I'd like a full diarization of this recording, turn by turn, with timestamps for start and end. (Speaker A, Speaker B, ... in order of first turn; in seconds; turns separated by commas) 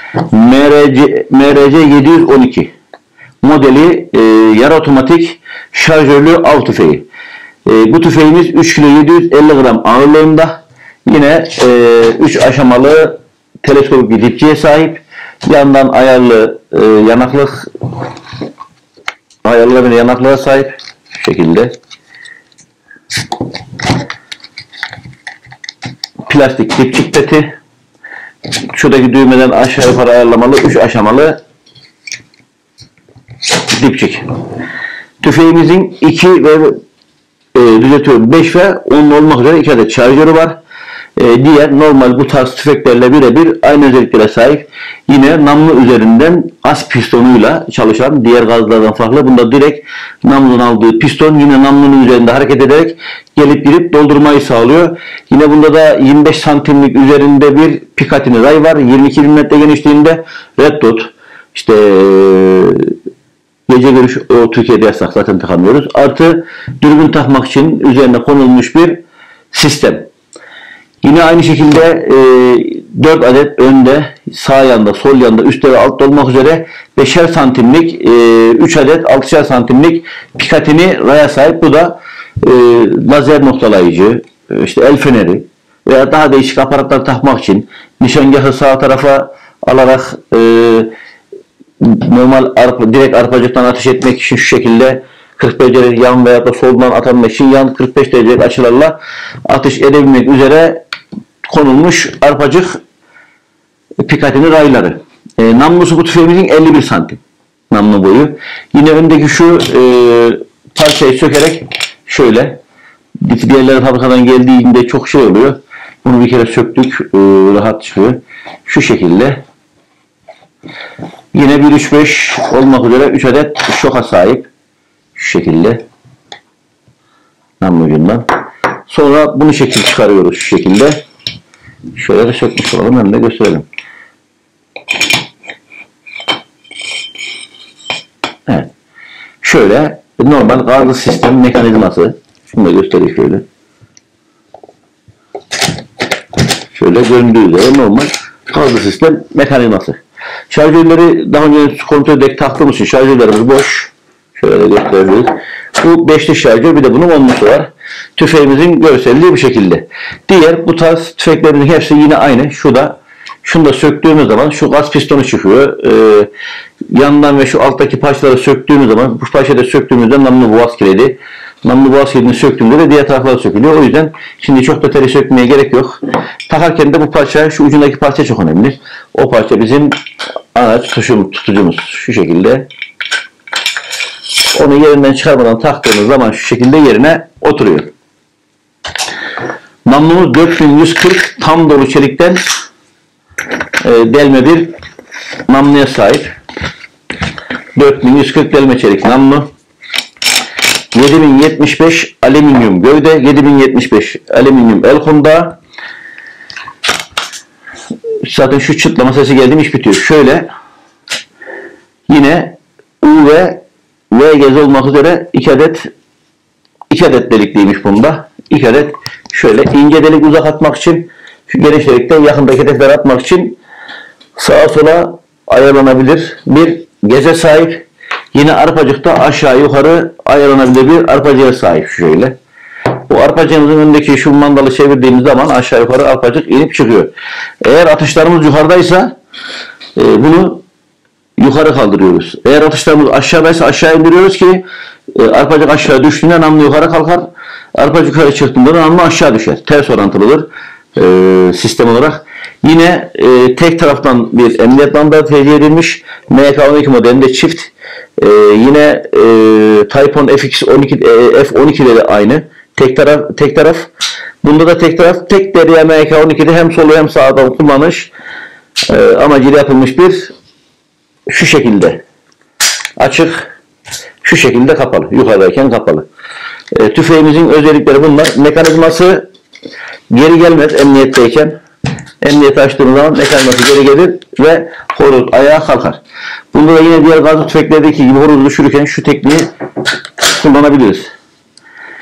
Speaker A: 0.3-2.7, Speaker A: 3.4-7.0, Speaker A: 7.7-17.7, Speaker A: 19.4-21.7, Speaker A: 26.2-27.5, Speaker A: 28.7-31.4, Speaker A: 33.7-34.2, Speaker A: 35.2-36.8, Speaker A: 37.5-40.6, Speaker A: 41.2-62.9, Speaker A: 63.7-70.1, Speaker A: 71.0-90.9, Speaker A: 91.8-99.0, Speaker A: 99.5-100.8, Speaker A: 101.5-102.8, Speaker A: 104.0-112.6, Speaker A: 113.2-119.4, Speaker A: 121.3-124.5, Speaker A: 125.2-125.8, Speaker A: 127.6-128.2, Speaker A: 128.9-131.0, Speaker A: 131.9-133.7, Speaker A: 139.4-143.4, Speaker A: 146.7-166.3, Speaker A: 166.9-179.9, Speaker A: 180.5-182.7, Speaker A: 184.5-187.9, Speaker A: 189.8-192.4, Speaker A: 193.8-194.7, Speaker A: 195.5-196.3, Speaker A: 197.8-199.5, Speaker A: 200.9-205.6, Speaker A: 208.2-210.5, Speaker A: 212.1-215.9, Speaker A: 216.9-223.6, Speaker A: 224.3-232.3, Speaker A: 233.1-237.1, Speaker A: 237.6-239.1, Speaker A: 239.9-240.6, Speaker A: 241.4-244.6, Speaker A: 245.1-263.9, Speaker A: 264.4-268.1, Speaker A: 268.9-270.3, Speaker A: 271.3-272.0, Speaker A: 273.0-273.5, Speaker A: 274.2-276.1, Speaker A: 276.7-279.2, Speaker A: 280.1-281.6, Speaker A: 282.2-286.0, Speaker A: 286.5-289.5, Speaker A: 290.2-291.1